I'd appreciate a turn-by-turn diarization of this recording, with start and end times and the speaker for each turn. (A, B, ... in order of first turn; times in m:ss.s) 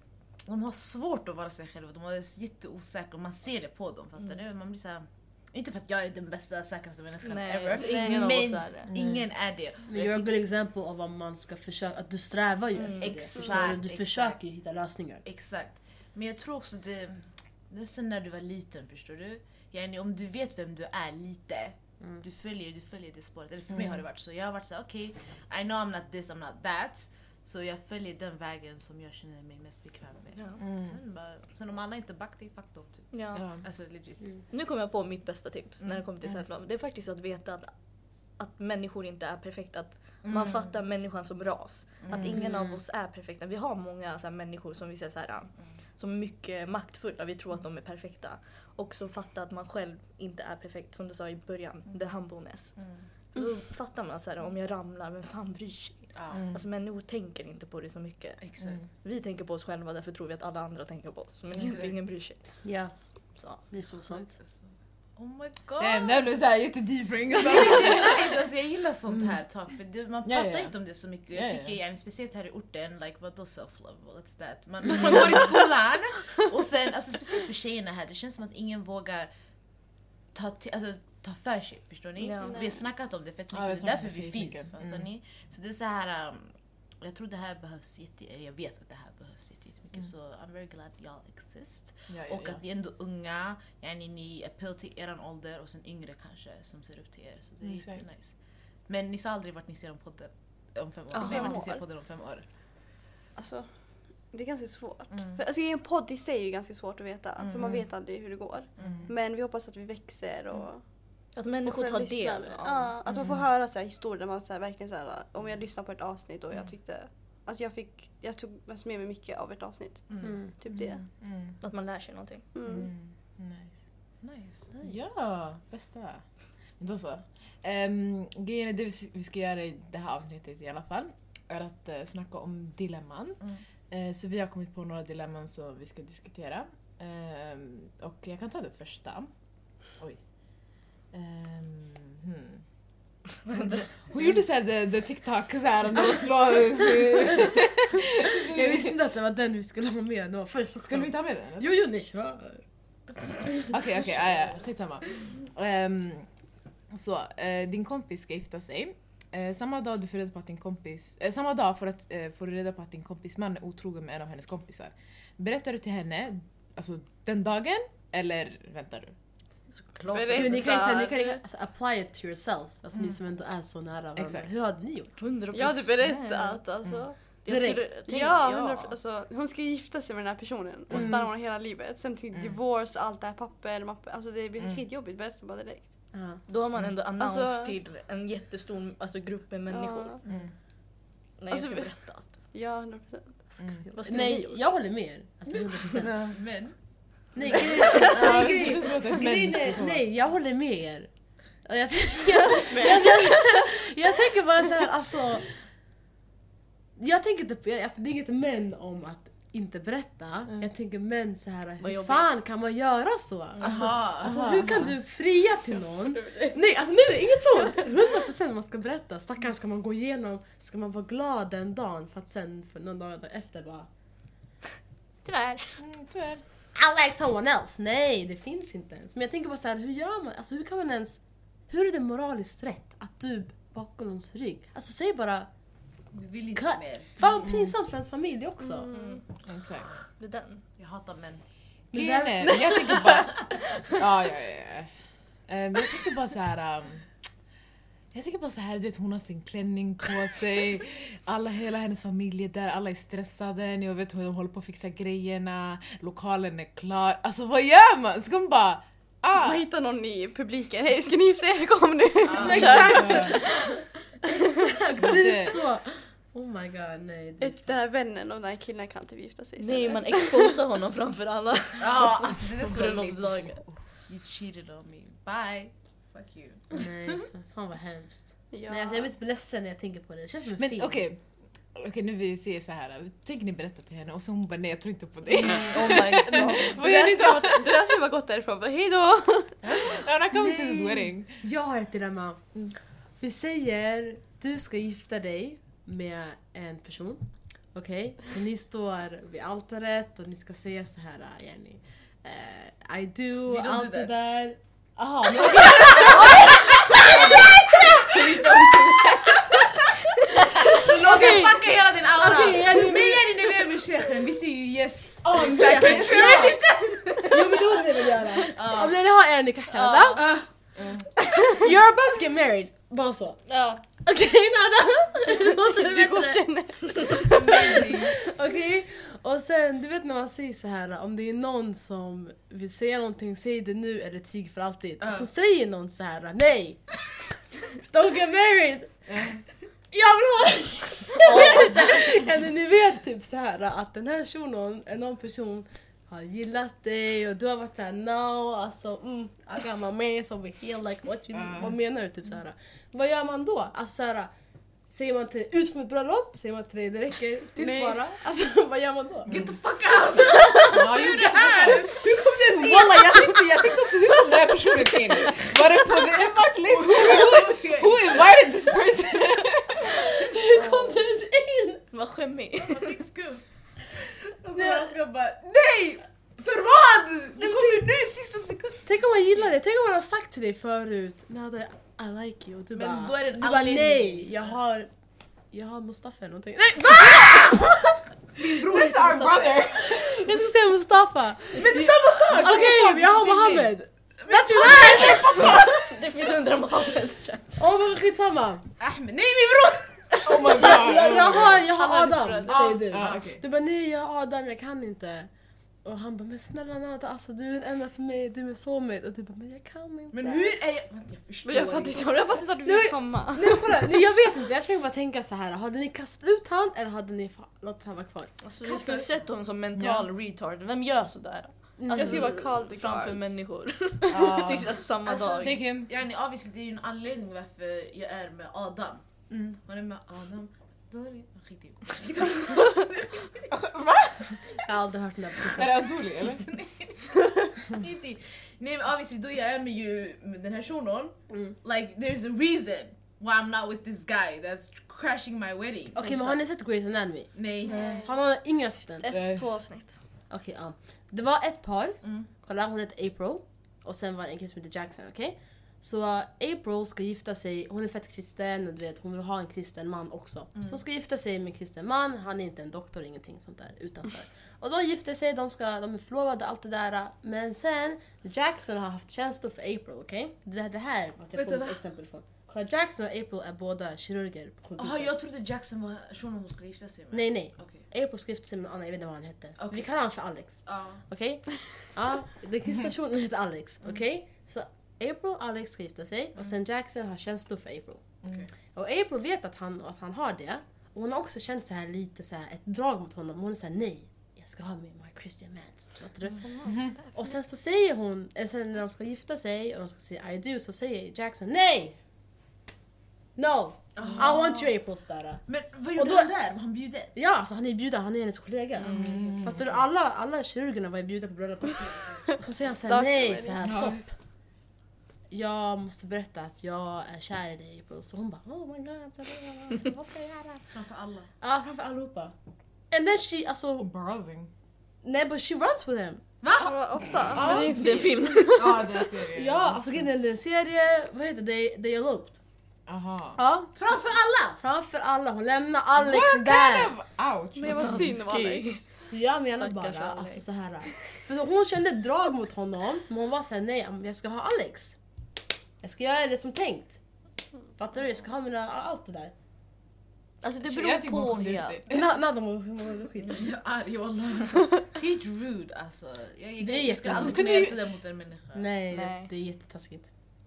0:00.4-0:10.4 A
0:07.2-0:08.9 B
0:07.7-0:08.2 C
0:09.8-0:15.2 D
0:12.8-0:13.1 B
0:12.9-0:14.4 A
0:13.3-0:13.7 C
0:15.2-0:34.3 A
0:23.7-0:24.0 E
0:30.6-0:31.0 E
0:33.1-0:33.4 B
0:33.3-0:33.6 E
0:34.5-0:37.7 B
0:38.4-0:52.8 B
0:40.3-0:40.5 A
0:42.1-0:42.4 E
0:42.3-0:42.8 D
0:52.8-0:53.0 A
0:53.3-0:58.5 B
0:56.1-0:56.4 A
0:56.3-0:56.6 E
0:58.4-0:58.8 A
0:59.0-1:02.4 B
1:01.6-1:01.9 A
1:02.6-1:02.9 D
1:03.4-1:03.6 B
1:03.6-1:04.3 D
1:04.2-1:06.2 A
1:05.8-1:08.4 E
1:07.3-1:19.3 A
1:10.2-1:10.7 E
1:11.3-1:11.8 E
1:20.3-1:38.3 A
1:22.2-1:22.6 B
1:22.4-1:22.8 C
1:23.5-1:25.1 E
1:32.1-1:32.6 E
1:37.6-1:38.0 E
1:38.9-1:42.4 A
1:41.1-1:41.5 B
1:41.1-1:41.8 C
1:43.4-1:50.8 C
1:45.1-1:45.4 A
1:47.4-1:47.7 A
1:48.8-1:49.1 A
1:48.8-1:49.0 E
1:51.3-1:53.0 B
1:51.6-2:01.0 C
2:00.1-2:00.4 A
2:00.2-2:00.5 D
2:00.8-2:01.5 E
2:01.6-2:02.4 B
2:02.5-2:02.9 C
2:02.6-2:03.8 E
2:04.2-2:04.6 A
2:04.8-2:06.2 E
2:06.8-2:19.3 E
2:21.1-2:22.6 E
2:23.5-2:23.9 B
2:23.5-2:28.9 E
2:28.4-2:32.6 D
2:30.8-2:31.8 E
2:33.1-2:33.7 D
2:33.7-2:36.3 E
2:36.9-2:49.1 E
2:49.7-2:50.7 B
2:50.1-2:51.4 C
2:50.3-2:55.1 D
2:54.2-2:54.5 E
2:55.2-2:56.6 B
2:55.5-2:57.4 C
2:57.2-2:59.0 B
2:57.5-2:57.9 D
2:58.0-3:05.9 C
3:00.9-3:01.2 E
3:06.1-3:06.4 D
3:06.5-3:10.2 B
3:07.2-3:07.8 C
3:09.7-3:10.2 C
3:10.2-3:10.5 E
3:11.4-3:12.5 B
3:11.5-3:13.6 C
3:13.9-3:14.6 B
3:14.0-3:16.2 D
3:16.0-3:16.4 E
3:16.2-3:16.7 A
3:17.3-3:21.1 D
3:18.0-3:20.0 E
3:21.6-3:25.5 D
3:22.6-3:23.6 C
3:27.0-3:43.9 D
3:31.8-3:32.3 B
3:33.6-3:34.4 A
3:33.8-3:34.9 E
3:36.2-3:36.5 C
3:45.2-3:45.8 B
3:45.8-3:46.4 E
3:46.7-3:55.5 D
3:56.1-3:57.2 A
3:56.5-3:58.9 D
3:57.4-3:57.7 E
3:58.8-3:59.2 C
3:58.9-3:59.2 B
3:59.4-4:00.0 E
4:00.2-4:00.6 B
4:00.8-4:01.4 A
4:01.9-4:02.6 D
4:01.9-4:04.9 E
4:05.5-4:07.0 E
4:08.1-4:19.6 E
4:19.3-4:23.4 C
4:22.3-4:22.9 A
4:22.3-4:23.8 D
4:22.4-4:23.4 E
4:24.6-4:27.7 D
4:25.0-4:25.6 E
4:27.4-4:30.5 C
4:29.6-4:33.6 B
4:31.8-4:36.9 A
4:36.7-4:41.0 D
4:38.5-4:39.1 C
4:40.6-4:41.2 E
4:41.7-4:47.7 E
4:45.7-4:46.7 A
4:46.6-4:49.6 C
4:49.6-4:52.4 D
4:49.8-4:51.4 E
4:53.2-5:04.6 D
5:03.5-5:04.2 A
5:05.2-5:09.7 A
5:05.3-5:06.4 D
5:05.4-5:06.1 E
5:08.2-5:09.0 C
5:10.3-5:17.4 A
5:10.7-5:13.3 D
5:15.2-5:16.6 D
5:15.3-5:16.8 E
5:17.2-5:20.3 D
5:18.5-5:18.9 A
5:19.7-5:20.3 B
5:20.2-5:20.4 A
5:20.8-5:21.0 E
5:21.4-5:23.4 D
5:23.5-5:23.8 B
5:24.0-5:26.4 D
5:25.5-5:27.5 C
5:27.0-5:36.9 D
5:27.2-5:28.1 A
5:37.8-5:39.0 D
5:39.9-5:54.3 D
5:41.2-5:42.1 E
5:51.3-5:51.8 E
5:54.9-5:59.5 D
5:57.6-5:58.0 C
5:59.3-5:59.5 E
5:59.3-6:03.6 A
6:00.7-6:10.0 E
6:02.4-6:03.4 D
6:06.6-6:08.2 A
6:09.8-6:11.8 D
6:10.6-6:11.0 B
6:11.9-6:13.0 B
6:12.6-6:18.8 A
6:14.6-6:14.9 D
6:17.4-6:17.8 D
6:18.8-6:24.9 D
6:22.7-6:24.4 A
6:25.5-6:28.0 D
6:28.4-6:29.8 A
6:28.5-6:30.2 E
6:28.7-6:35.7 D
6:31.5-6:33.3 A
6:31.8-6:33.7 E
6:34.3-6:35.5 A
6:34.6-6:37.5 B
6:37.6-6:38.6 D
6:38.8-6:43.4 A
6:40.2-6:41.6 E
6:40.4-6:45.3 D
6:42.7-6:43.4 E
6:45.8-6:50.5 D
6:50.1-6:52.4 A
6:51.4-6:53.8 C
6:52.6-6:59.0 D
6:58.4-7:05.6 B
6:59.7-7:00.1 E
7:01.8-7:02.3 D
7:01.9-7:03.4 C
7:04.1-7:04.8 E
7:05.0-7:13.5 A
7:05.4-7:05.9 E
7:13.5-7:14.4 E
7:14.6-7:15.9 D
7:15.5-7:16.9 E
7:17.6-7:26.4 A
7:21.3-7:21.6 D
7:25.9-7:29.1 D
7:27.3-7:28.0 A
7:27.7-7:28.1 C
7:29.0-7:30.0 B
7:29.1-7:29.4 E
7:30.3-7:55.1 D
7:32.0-7:32.3 A
7:51.4-7:51.8 A
7:54.8-7:57.8 A
7:57.1-8:08.0 D
7:59.6-7:59.9 A
8:00.6-8:01.0 A
8:08.7-8:16.5 D
8:16.4-8:16.9 C
8:16.6-8:17.0 E
8:17.1-8:22.0 D
8:23.4-8:26.3 D
8:24.0-8:24.7 A
8:25.4-8:27.1 A
8:27.1-8:34.1 D
8:28.8-8:29.3 A
8:28.9-8:29.7 E
8:32.8-8:33.7 C
8:33.6-8:34.0 E
8:35.3-8:40.6 D
8:40.7-8:41.3 A
8:41.4-8:42.3 D
8:42.9-8:43.9 D
8:43.8-8:44.5 E
8:45.0-8:46.2 D
8:46.4-8:46.8 A
8:46.6-8:48.7 C
8:47.4-8:47.6 E
8:47.4-8:49.0 B
8:48.5-8:50.0 E
8:49.3-8:52.4 D
8:52.9-8:53.4 E
8:53.4-8:54.0 D
8:53.8-8:54.6 A
8:54.5-8:56.9 D
8:56.0-8:58.2 E
8:57.6-8:58.8 C
8:57.6-8:58.8 B
8:59.0-9:05.0 D
8:59.6-9:00.4 B
9:05.8-9:07.0 D
9:07.8-9:09.3 D
9:10.4-9:11.8 B
9:10.6-9:12.0 E
9:11.9-9:13.5 D
9:13.3-9:18.7 A
9:16.6-9:17.8 D
9:17.1-9:17.6 E
9:18.5-9:20.1 D
9:18.9-9:19.3 B